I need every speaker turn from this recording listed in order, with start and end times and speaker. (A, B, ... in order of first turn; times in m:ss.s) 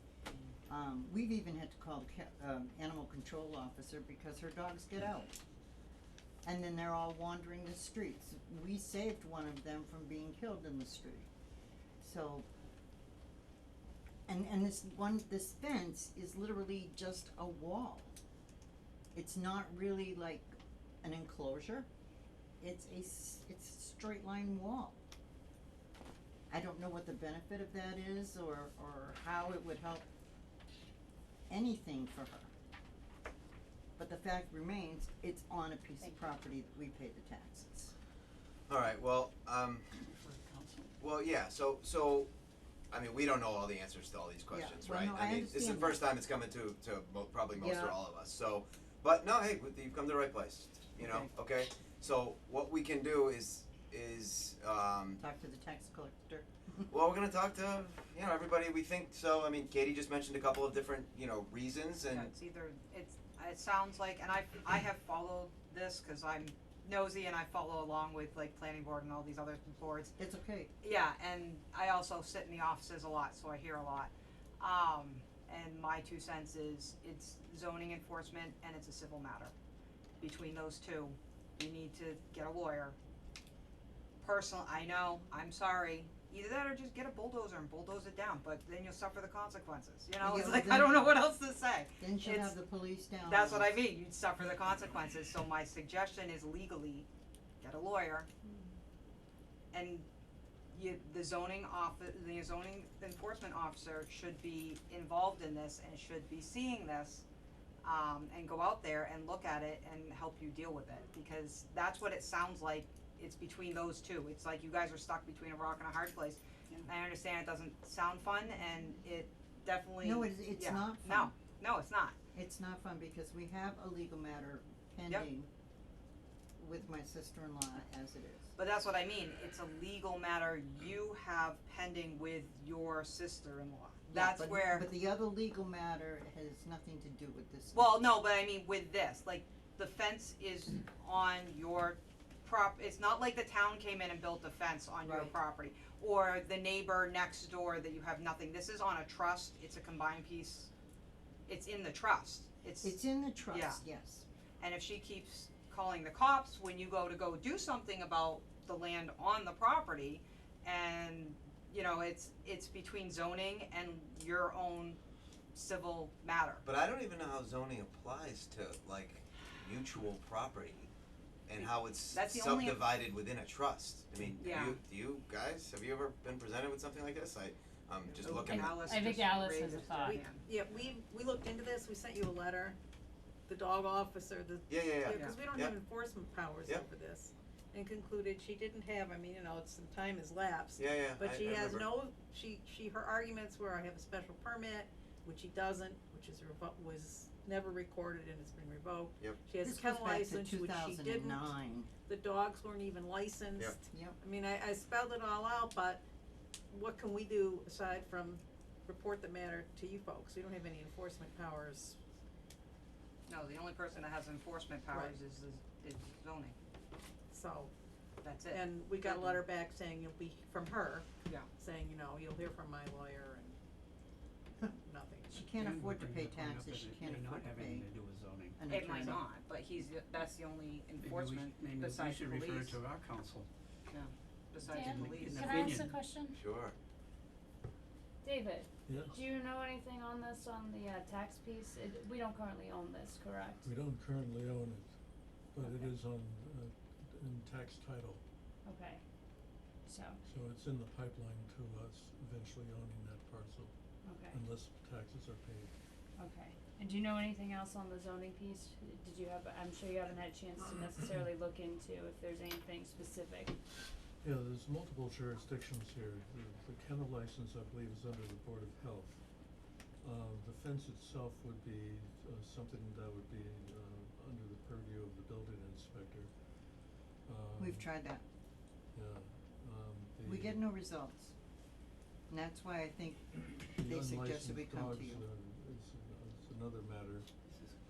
0:00.7-0:05.3 A
0:06.4-0:11.3 A
0:12.0-0:12.5 A
0:14.3-0:18.2 A
0:19.1-0:21.9 A
0:22.6-0:25.0 A
0:26.5-0:30.1 A
0:31.5-0:32.5 A
0:34.0-0:37.9 A
0:38.7-0:39.9 B
0:40.1-0:40.9 C
0:41.0-0:42.3 B
0:42.9-0:55.2 B
0:44.5-0:46.1 A
0:47.6-0:48.0 A
0:51.0-0:51.3 A
0:55.2-0:56.9 A
0:56.9-1:02.3 B
1:02.1-1:10.1 D
1:10.2-1:10.7 A
1:10.8-1:19.5 D
1:20.2-1:23.0 D
1:24.2-1:32.6 D
1:30.2-1:31.1 A
1:32.0-1:33.8 A
1:33.2-1:37.0 D
1:37.6-1:38.3 D
1:39.7-1:40.0 D
1:40.7-1:47.2 D
1:47.8-2:02.2 D
2:00.0-2:01.3 A
2:02.3-2:05.5 A
2:06.6-2:08.6 A
2:08.6-2:14.9 D
2:14.1-2:18.0 A
2:17.7-2:30.7 D
2:25.0-2:25.4 A
2:31.5-2:33.8 D
2:32.8-2:34.2 A
2:34.6-2:45.0 D
2:45.5-2:46.6 D
2:46.6-2:50.9 B
2:51.5-2:59.1 B
2:51.6-2:52.9 D
2:54.3-2:54.8 D
2:58.1-3:00.8 D
2:58.3-3:00.2 E
3:00.0-3:02.8 F
3:03.5-3:21.5 F
3:04.7-3:05.8 B
3:05.1-3:05.4 D
3:10.8-3:12.0 B
3:19.6-3:21.9 A
3:22.1-3:26.0 F
3:26.7-3:32.0 F
3:33.3-3:36.5 D
3:34.9-3:35.2 F
3:37.3-3:37.7 F
3:38.2-3:39.4 D
3:38.5-3:43.6 F
3:44.7-3:45.5 F
3:45.3-3:47.9 A
3:45.6-3:48.6 C
3:48.6-3:49.2 A
3:48.7-3:52.8 D
3:51.0-3:53.5 C
3:53.9-3:55.8 D
3:54.7-3:56.4 E
3:54.9-3:55.9 C
3:56.3-3:56.8 B
3:58.2-4:03.7 E
3:58.9-3:59.2 G
4:03.6-4:04.9 G
4:05.5-4:08.2 G
4:05.6-4:05.9 E
4:08.6-4:09.0 E
4:09.8-4:10.2 E
4:10.2-4:13.7 G
4:14.0-4:14.4 E
4:14.3-4:15.7 G
4:16.2-4:23.6 E
4:24.2-4:29.5 G
4:30.0-4:36.7 G
4:37.3-4:37.9 G
4:37.6-4:38.2 A
4:39.0-4:40.7 G
4:40.2-4:41.4 A
4:42.3-4:45.3 A
4:43.8-4:47.3 G
4:47.5-4:47.8 C